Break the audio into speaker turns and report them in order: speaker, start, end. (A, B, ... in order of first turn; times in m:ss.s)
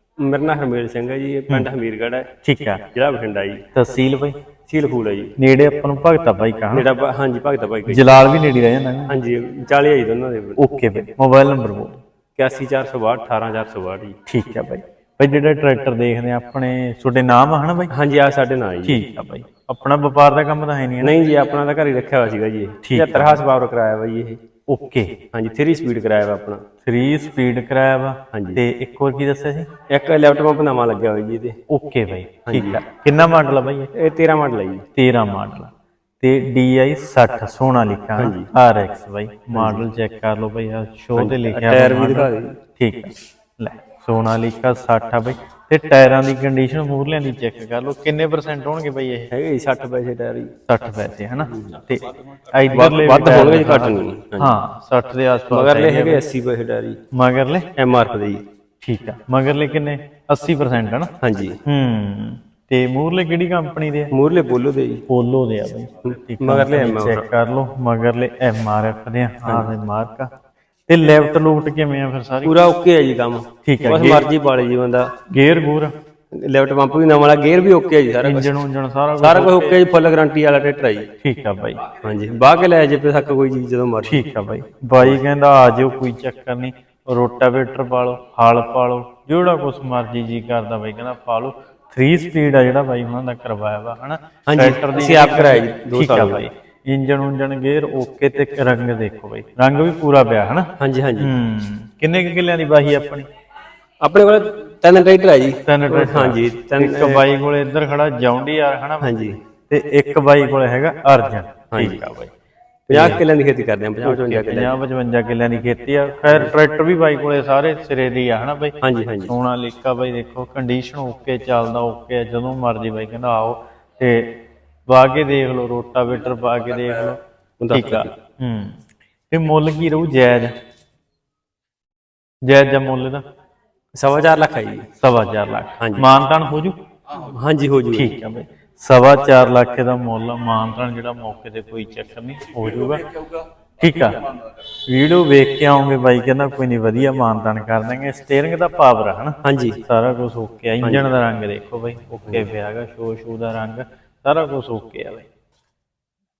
0:00.2-0:02.3 A
0:02.4-0:02.8 B
0:02.9-0:03.6 A
0:03.7-0:04.4 B
0:04.7-0:05.3 A
0:05.4-0:06.9 B
0:06.7-0:08.1 A
0:07.9-0:09.2 B
0:09.1-0:10.6 A
0:10.6-0:12.0 B
0:12.4-0:14.2 A
0:14.3-0:17.9 B
0:17.9-0:19.0 A
0:18.8-0:21.2 B
0:21.0-0:24.4 A
0:22.8-0:23.4 B
0:24.7-0:25.2 B
0:25.3-0:26.6 A
0:26.8-0:29.7 B
0:28.3-0:28.6 A
0:29.9-0:31.6 A
0:31.7-0:33.9 B
0:32.4-0:32.8 A
0:33.9-0:34.8 A
0:34.9-0:35.7 B
0:36.2-0:49.3 B
0:38.2-0:38.5 A
0:39.5-0:39.8 A
0:41.2-0:42.5 A
0:49.3-0:50.5 A
0:50.7-0:56.2 B
0:51.5-0:51.8 A
0:52.7-0:54.6 A
0:55.5-0:57.0 A
0:57.1-0:57.7 B
0:57.8-0:58.4 A
0:58.8-1:01.1 B
1:01.2-1:01.6 A
1:01.6-1:04.1 B
1:04.1-1:05.0 A
1:05.1-1:10.3 B
1:06.0-1:07.2 A
1:10.9-1:12.6 B
1:12.4-1:15.1 A
1:13.6-1:14.3 B
1:15.3-1:15.9 B
1:16.3-1:18.5 A
1:18.2-1:19.8 B
1:19.2-1:21.1 A
1:21.2-1:21.8 B
1:22.0-1:24.2 A
1:24.1-1:43.3 B
1:34.4-1:36.4 A
1:40.8-1:41.3 A
1:44.0-1:47.2 A
1:45.6-1:49.1 B
1:49.0-1:49.4 A
1:49.7-1:52.3 B
1:51.7-1:52.0 A
1:52.9-1:53.2 B
1:52.9-1:54.7 A
1:54.0-2:04.3 B
1:58.8-1:59.3 A
2:04.9-2:07.2 B
2:07.6-2:08.1 A
2:07.7-2:08.8 B
2:09.3-2:10.5 B
2:12.4-2:13.2 B
2:14.0-2:14.9 A
2:15.0-2:16.8 B
2:15.8-2:16.1 A
2:17.1-2:18.1 A
2:17.9-2:23.0 B
2:23.8-2:24.2 B
2:24.9-2:35.3 B
2:29.4-2:29.8 A
2:30.8-2:31.1 A